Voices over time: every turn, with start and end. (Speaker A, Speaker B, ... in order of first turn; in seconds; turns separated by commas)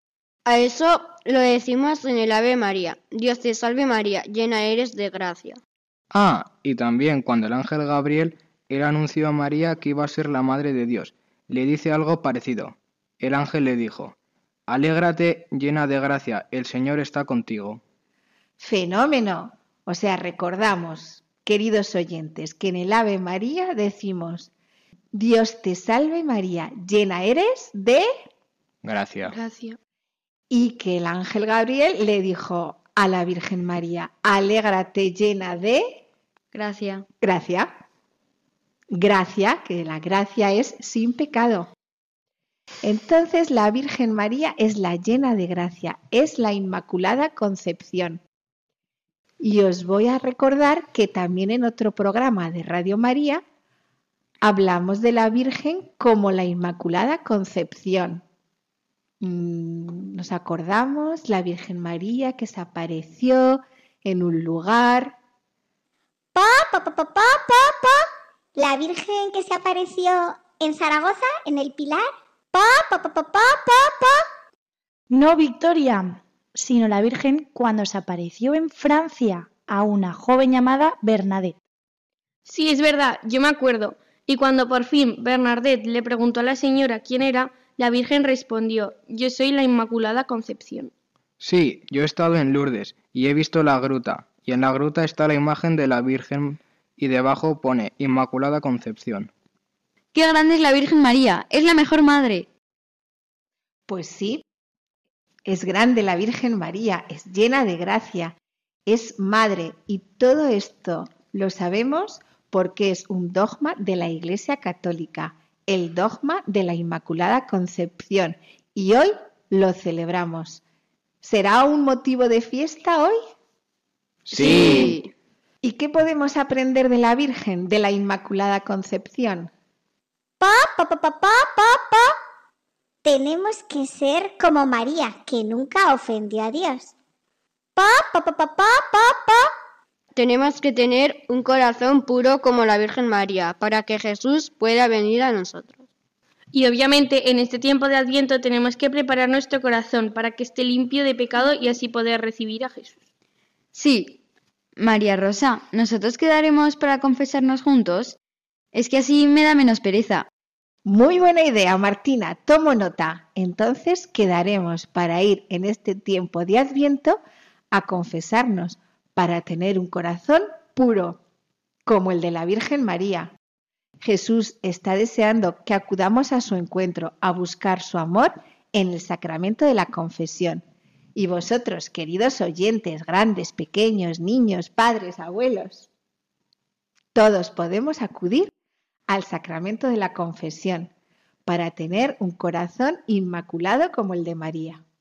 Speaker A: 0.5-5.6, Speaker B: 6.1-14.1, Speaker B: 14.7-17.8, Speaker C: 18.6-24.5, Speaker C: 25.1-28.1, Speaker B: 28.8-29.3, Speaker D: 29.3-29.8, Speaker C: 30.5-36.0, Speaker E: 36.5-37.0, Speaker C: 37.2-37.7, Speaker C: 38.9-41.7, Speaker C: 42.8-48.2, Speaker C: 49.4-53.4, Speaker C: 54.4-58.2, Speaker C: 59.2-65.2, Speaker F: 66.3-74.2, Speaker G: 75.1-81.6, Speaker D: 82.5-90.9, Speaker B: 91.4-99.3, Speaker E: 100.1-102.5, Speaker C: 103.9-104.4, Speaker C: 105.5-108.3, Speaker C: 108.9-120.6, Speaker C: 121.2-123.2, Speaker B: 124.3-125.0, Speaker A: 124.3-125.1, Speaker C: 125.6-129.5, Speaker F: 130.4-132.1, Speaker F: 133.0-136.9, Speaker F: 137.8-139.5, Speaker A: 140.1-145.8, Speaker D: 146.5-153.0, Speaker E: 153.7-154.2, Speaker E: 154.8-158.2, Speaker E: 158.7-160.3, Speaker C: 160.8-167.2, Speaker C: 167.7-171.2, Speaker C: 171.8-173.3, Speaker C: 174.0-180.6, Speaker C: 181.1-185.9, Speaker C: 187.1-188.5, Speaker C: 189.1-190.9, Speaker C: 191.4-194.8